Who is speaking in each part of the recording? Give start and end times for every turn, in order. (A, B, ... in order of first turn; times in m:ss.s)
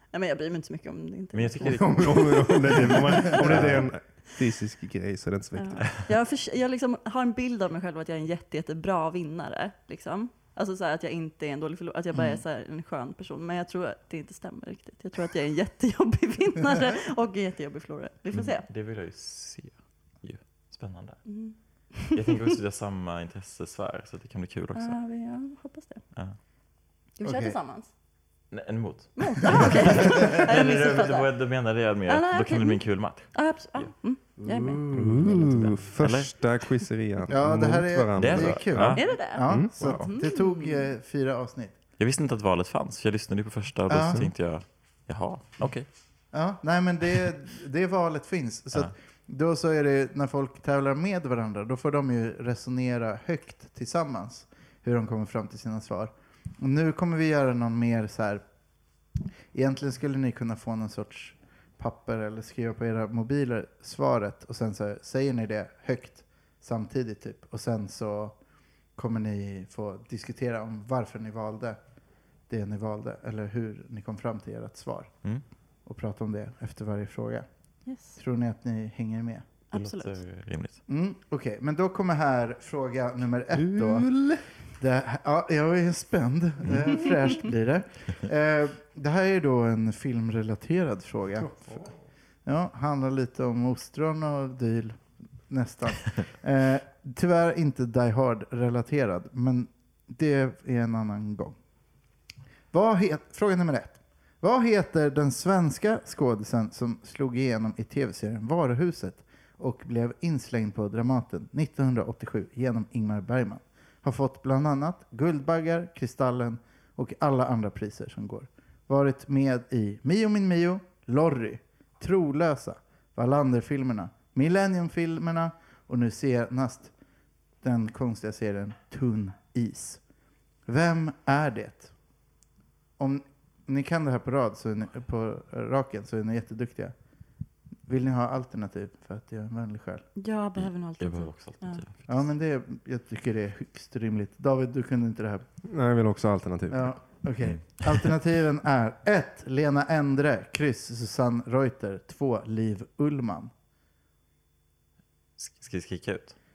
0:00.1-0:03.7 A
0:01.3-0:02.3 B
0:01.7-0:05.9 C
0:03.4-0:03.8 B
0:05.5-0:18.6 A
0:12.1-0:12.4 D
0:18.3-0:21.4 B
0:21.2-0:22.4 A
0:22.0-0:25.0 B
0:24.7-0:26.0 A
0:27.2-0:27.9 A
0:27.2-0:27.6 D
0:28.5-0:33.9 B
0:29.2-0:31.4 A
0:29.4-0:30.4 D
0:32.0-0:34.8 A
0:34.4-0:35.4 D
0:34.9-0:39.9 C
0:35.1-0:36.4 B
0:37.3-0:41.8 D
0:38.2-0:39.2 B
0:38.9-0:40.9 A
0:39.8-0:40.1 B
0:42.0-0:45.9 B
0:43.9-0:44.3 D
0:46.3-0:58.4 D
0:59.5-1:08.4 D
1:09.0-1:11.8 D
1:12.5-1:15.1 D
1:15.8-1:17.5 D
1:17.8-1:18.2 A
1:18.1-1:19.5 D
1:19.7-1:20.2 A
1:19.7-1:20.8 B
1:20.9-1:31.9 D
1:23.6-1:24.4 C
1:31.5-1:31.9 C
1:32.4-1:41.6 D
1:42.7-2:06.9 D
2:07.6-2:10.0 D
2:10.6-2:11.9 D
2:13.0-2:16.9 D
2:17.9-2:20.0 D
2:20.2-2:21.8 A
2:20.6-2:22.1 B
2:22.1-2:25.5 D
2:25.6-2:26.9 C
2:26.7-2:33.5 D
2:27.4-2:28.0 B
2:35.4-2:36.4 B